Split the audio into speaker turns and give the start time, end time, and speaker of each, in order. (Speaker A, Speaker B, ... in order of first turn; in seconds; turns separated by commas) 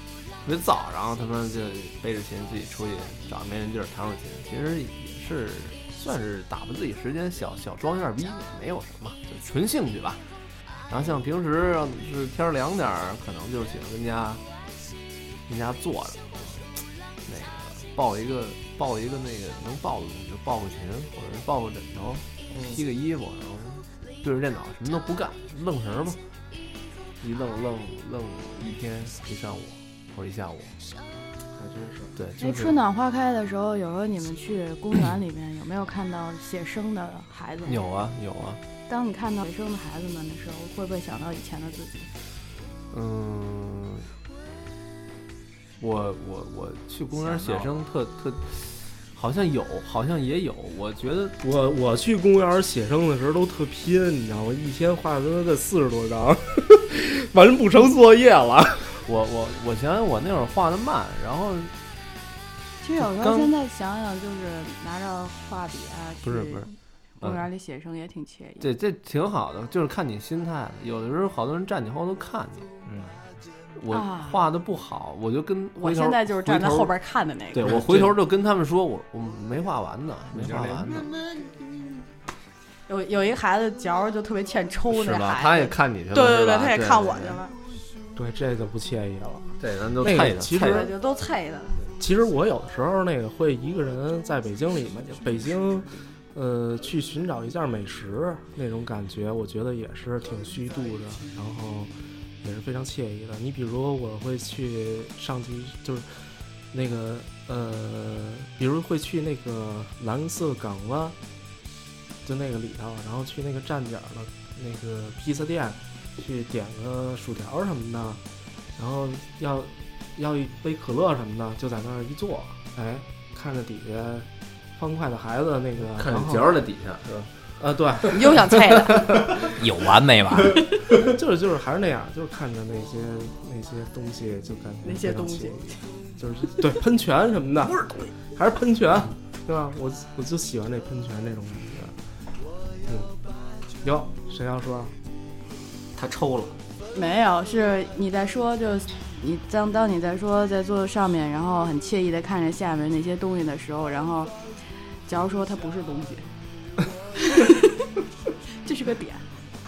Speaker A: 0.4-10.2, Speaker A: 10.9-14.4, Speaker A: 15.5-16.7, Speaker A: 17.3-26.2, Speaker B: 22.5-22.8, Speaker A: 27.2-30.8, Speaker B: 31.5-32.2, Speaker A: 32.2-32.7, Speaker C: 32.4-37.8, Speaker A: 37.7-38.6, Speaker C: 38.9-42.1, Speaker A: 42.9-44.1, Speaker A: 45.8-51.4, Speaker D: 47.2-47.7, Speaker B: 51.4-59.0, Speaker A: 59.0-61.7, Speaker C: 62.8-68.7, Speaker A: 63.0-63.5, Speaker A: 66.2-67.5, Speaker A: 68.6-72.7, Speaker D: 72.8-73.2, Speaker A: 73.8-76.9, Speaker C: 73.9-74.4, Speaker C: 75.8-77.7, Speaker A: 77.5-81.1, Speaker D: 77.8-78.1, Speaker B: 80.4-80.9, Speaker D: 80.5-80.8, Speaker C: 82.9-87.5, Speaker A: 84.9-87.4, Speaker B: 88.2-90.9, Speaker A: 89.6-90.9, Speaker C: 90.5-91.8, Speaker B: 92.0-106.2, Speaker B: 106.7-111.2, Speaker B: 112.2-118.2, Speaker B: 118.8-126.5, Speaker A: 125.9-127.3, Speaker B: 127.6-128.3, Speaker C: 128.1-129.1, Speaker B: 128.9-129.4, Speaker D: 129.4-130.6, Speaker B: 131.0-141.9, Speaker C: 134.8-135.8, Speaker B: 142.9-143.1, Speaker B: 143.8-144.9, Speaker D: 146.0-146.6, Speaker C: 146.9-154.3, Speaker C: 155.1-156.3, Speaker C: 157.2-157.8, Speaker C: 158.6-159.3